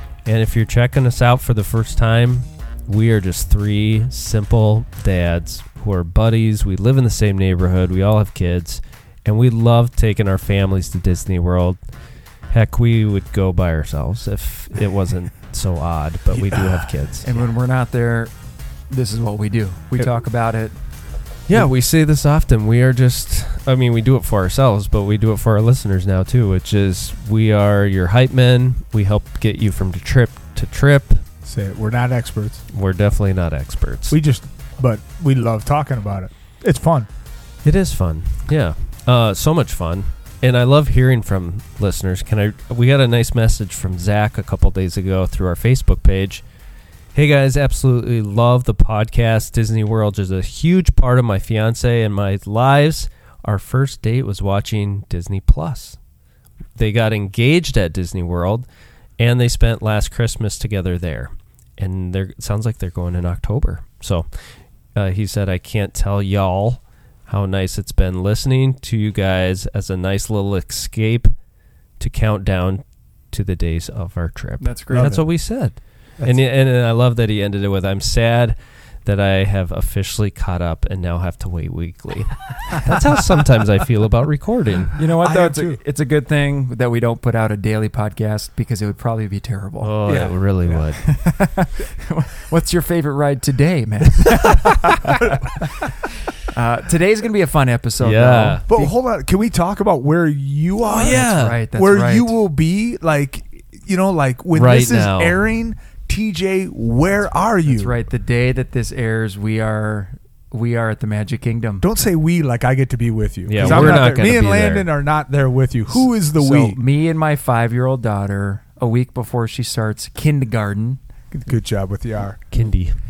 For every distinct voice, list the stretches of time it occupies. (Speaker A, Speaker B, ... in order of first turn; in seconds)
Speaker A: 0.2-11.8, 12.5-17.4, 21.5-31.2, 32.7-34.2, 37.6-46.4, 47.1-56.0, 56.8-58.6, 59.2-64.3, 64.9-71.3, 72.0-85.0, 89.8-91.0, 98.0-98.6, 100.9-101.6, 104.5-105.3, 113.5-114.9, 122.5-122.9
Speaker B: 16.3-16.9, 31.4-32.6, 34.1-37.1, 74.9-75.2, 85.2-85.8, 98.7-108.0, 111.8-116.8, 121.3-122.4
Speaker C: 17.2-18.3, 18.9-20.8, 74.6-75.2, 85.0-95.7, 96.5-98.9, 100.9-102.3, 107.6-111.8, 113.6-114.1, 116.0-121.0